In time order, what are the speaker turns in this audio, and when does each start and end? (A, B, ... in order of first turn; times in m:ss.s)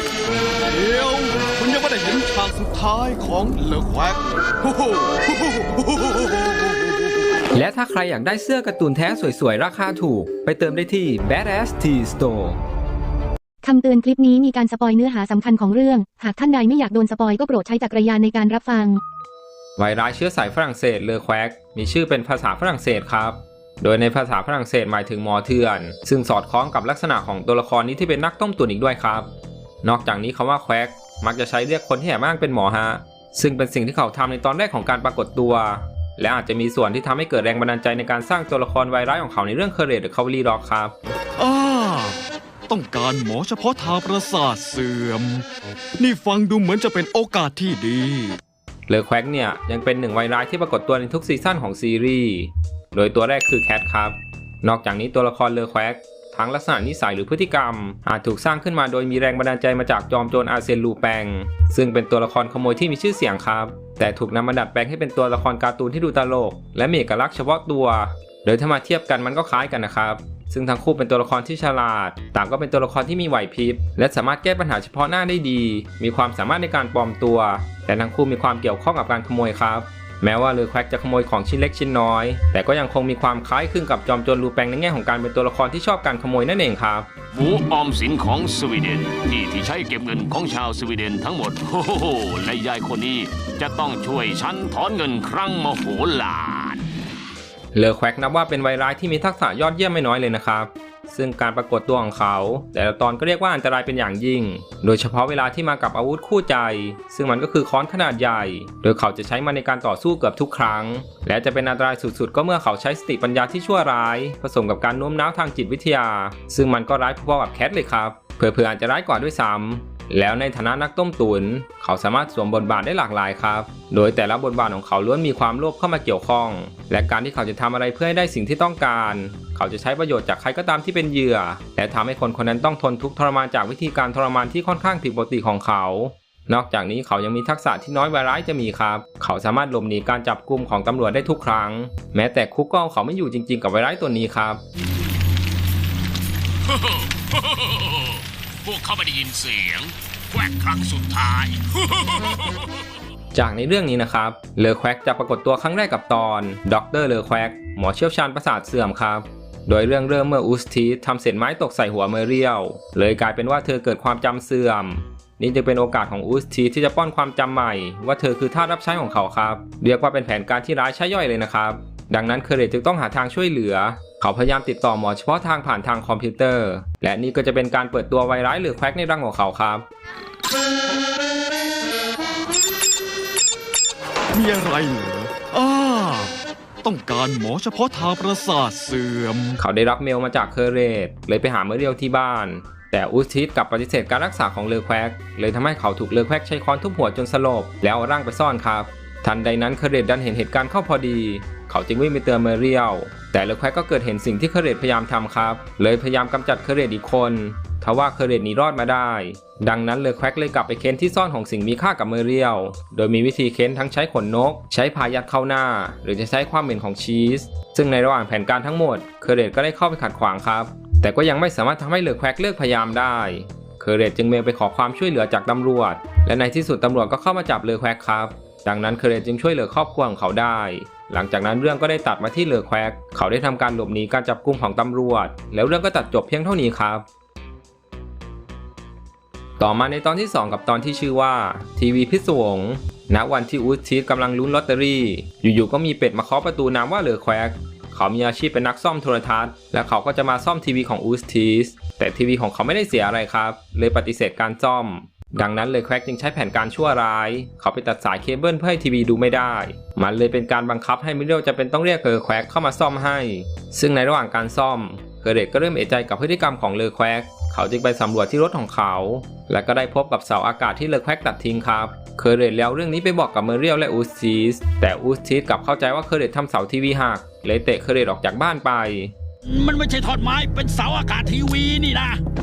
0:00.6-0:07.0 A
0:07.5-0:12.6 B
0:13.6-0:19.0 C
0:19.8-0:29.3 B
0:29.8-0:40.9 B
0:41.4-0:45.4 A
0:46.0-0:48.4 A
0:48.9-1:27.1 B
1:27.3-1:36.8 D
1:37.7-2:24.6 B
2:26.7-2:32.8 D
2:33.3-2:59.8 B
3:04.3-3:09.6 A
3:09.6-3:57.0 B
3:59.6-4:39.1 B
4:39.4-4:42.2 E